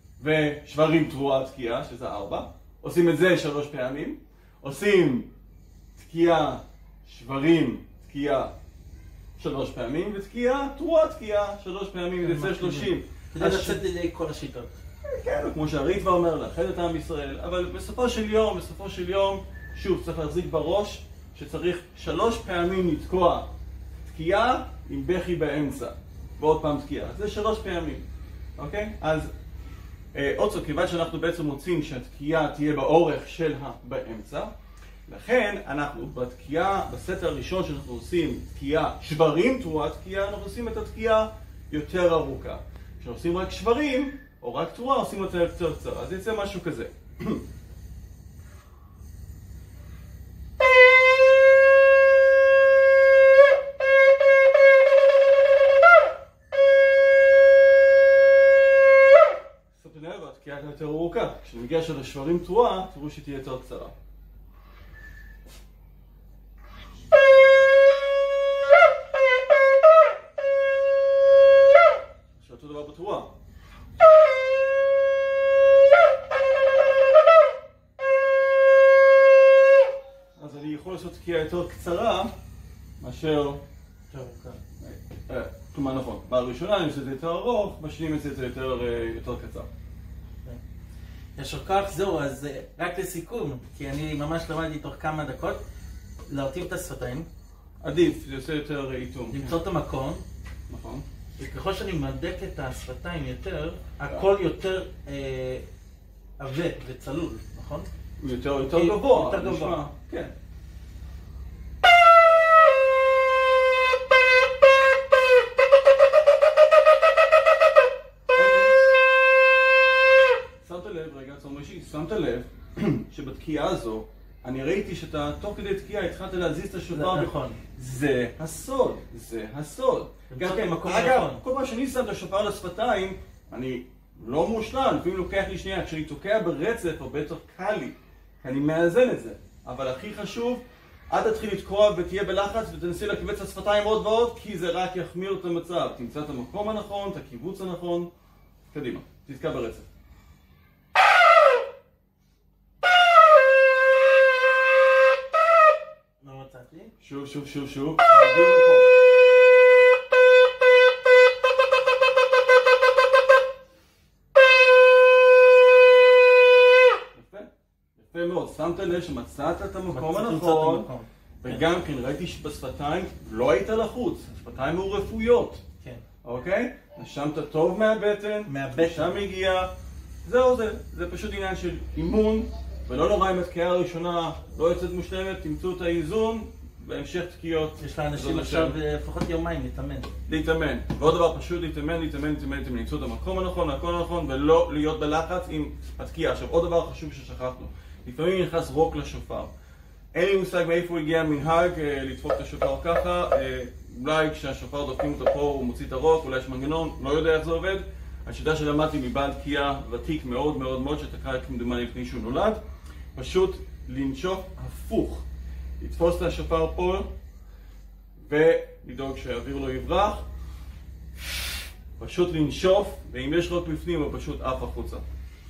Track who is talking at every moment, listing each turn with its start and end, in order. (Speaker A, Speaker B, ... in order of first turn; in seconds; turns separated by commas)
Speaker A: 0.2-5.3, Speaker A: 6.0-8.5, Speaker A: 9.4-13.8, Speaker B: 12.2-14.8, Speaker A: 15.0-23.5, Speaker A: 24.1-28.0, Speaker A: 28.6-29.3, Speaker A: 30.1-34.5, Speaker A: 35.1-47.4, Speaker A: 59.7-63.9, Speaker A: 72.3-73.3, Speaker A: 80.4-82.3, Speaker A: 83.0-83.6, Speaker B: 84.1-84.6, Speaker A: 84.8-89.7, Speaker B: 91.3-95.6, Speaker B: 96.3-97.3, Speaker A: 97.8-99.6, Speaker B: 99.3-100.2, Speaker A: 100.7-101.0, Speaker B: 101.4-105.6, Speaker B: 106.4-107.9, Speaker A: 108.2-110.3, Speaker B: 108.6-109.8, Speaker A: 118.3-118.7, Speaker A: 120.6-148.1, Speaker B: 126.9-127.6, Speaker B: 130.3-131.4, Speaker A: 148.7-149.8, Speaker B: 156.2-156.9, Speaker A: 157.0-158.9, Speaker A: 167.1-170.9, Speaker B: 169.9-171.6, Speaker A: 171.4-175.6, Speaker A: 176.2-179.7, Speaker B: 178.5-179.2, Speaker A: 180.2-188.8, Speaker B: 187.8-190.1, Speaker A: 190.3-199.5, Speaker A: 200.1-212.6, Speaker A: 213.1-215.2, Speaker A: 215.8-217.1, Speaker A: 218.2-220.2, Speaker A: 222.0-225.0